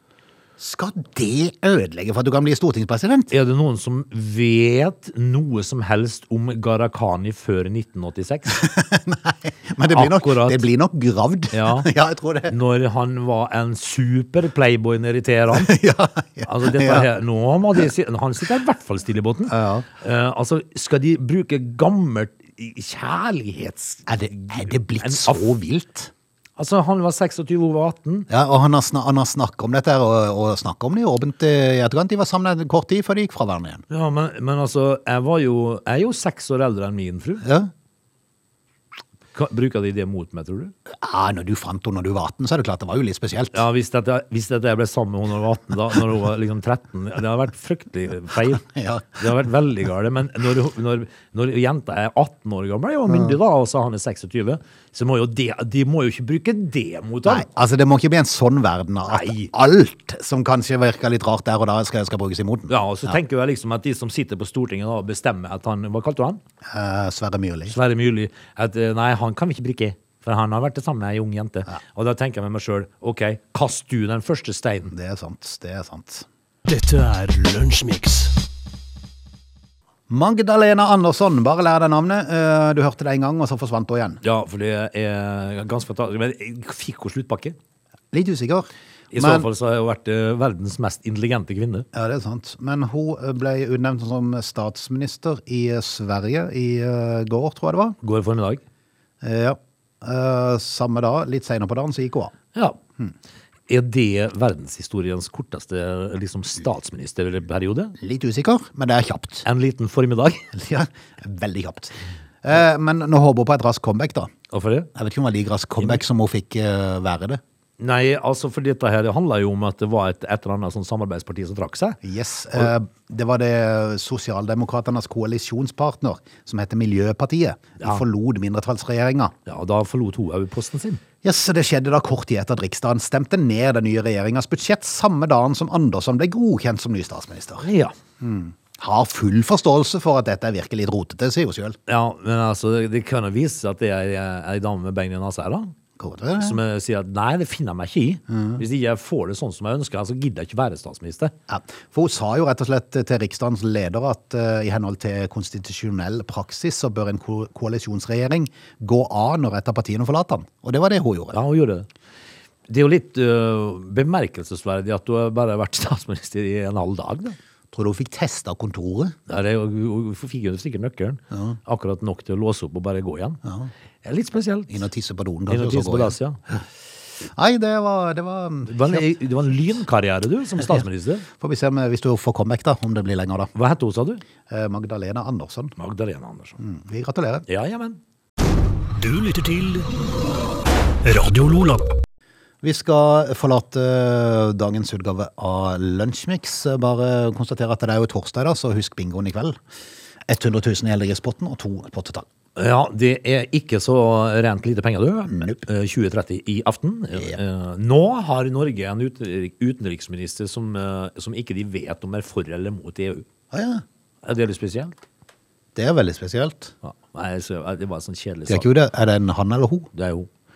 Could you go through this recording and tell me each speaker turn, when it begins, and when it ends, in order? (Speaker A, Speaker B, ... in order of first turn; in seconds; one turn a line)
Speaker A: 0.6-3.3
Speaker B: 3.3-8.6
Speaker A: 8.5-12.5
Speaker B: 9.9-10.6
Speaker B: 11.5-11.9
Speaker B: 12.5-15.7
Speaker A: 15.5-17.1
Speaker B: 16.4-25.5
Speaker A: 19.5-19.9
Speaker A: 24.1-26.1
Speaker B: 26.6-28.3
Speaker A: 28.3-33.8
Speaker B: 33.9-37.4
Speaker A: 37.4-37.7
Speaker B: 39.3-40.7
Speaker A: 40.9-43.6
Speaker B: 43.5-57.5
Speaker A: 48.6-49.2
Speaker A: 57.2-63.1
Speaker B: 59.1-59.5
Speaker B: 62.7-66.4
Speaker A: 66.7-67.8
Speaker B: 67.7-74.9
Speaker A: 74.9-76.2
Speaker C: 76.7-78.3
Speaker A: 80.1-84.2
Speaker B: 84.2-87.5
Speaker A: 88.1-89.5
Speaker B: 89.1-91.9
Speaker A: 91.9-98.0
Speaker B: 98.0-98.6
Speaker A: 99.2-102.3
Speaker B: 103.7-108.0
Speaker A: 108.0-109.5
Speaker B: 109.4-110.5
Speaker A: 110.5-114.3
Speaker B: 114.5-114.9
Speaker A: 114.9-117.4
Speaker B: 117.8-122.0
Speaker A: 122.0-129.3
Speaker B: 129.4-131.0
Speaker A: 131.2-137.7
Speaker B: 137.6-137.9
Speaker A: 138.2-141.8
Speaker B: 141.9-145.7
Speaker A: 146.0-146.6
Speaker B: 146.4-151.3
Speaker A: 148.3-148.6
Speaker A: 151.5-161.4
Speaker B: 161.3-161.9
Speaker B: 162.7-167.4
Speaker A: 167.7-169.1
Speaker B: 169.3-173.4
Speaker A: 171.3-171.6
Speaker A: 173.4-173.7
Speaker B: 174.0-174.8
Speaker A: 174.7-176.6
Speaker B: 175.5-176.4
Speaker A: 177.2-179.1
Speaker B: 178.7-181.2
Speaker A: 181.4-183.5
Speaker B: 183.5-184.2
Speaker A: 184.5-185.7
Speaker B: 185.8-186.6
Speaker A: 186.6-187.4
Speaker B: 187.5-188.0
Speaker C: 188.9-189.9
Speaker C: 191.0-192.0
Speaker A: 192.6-199.6
Speaker A: 200.3-202.2
Speaker B: 202.6-213.2
Speaker A: 205.3-205.6
Speaker A: 213.5-213.8
Speaker B: 214.2-215.0
Speaker A: 215.7-216.7
Speaker B: 216.8-218.7
Speaker A: 218.5-219.9
Speaker B: 219.9-220.3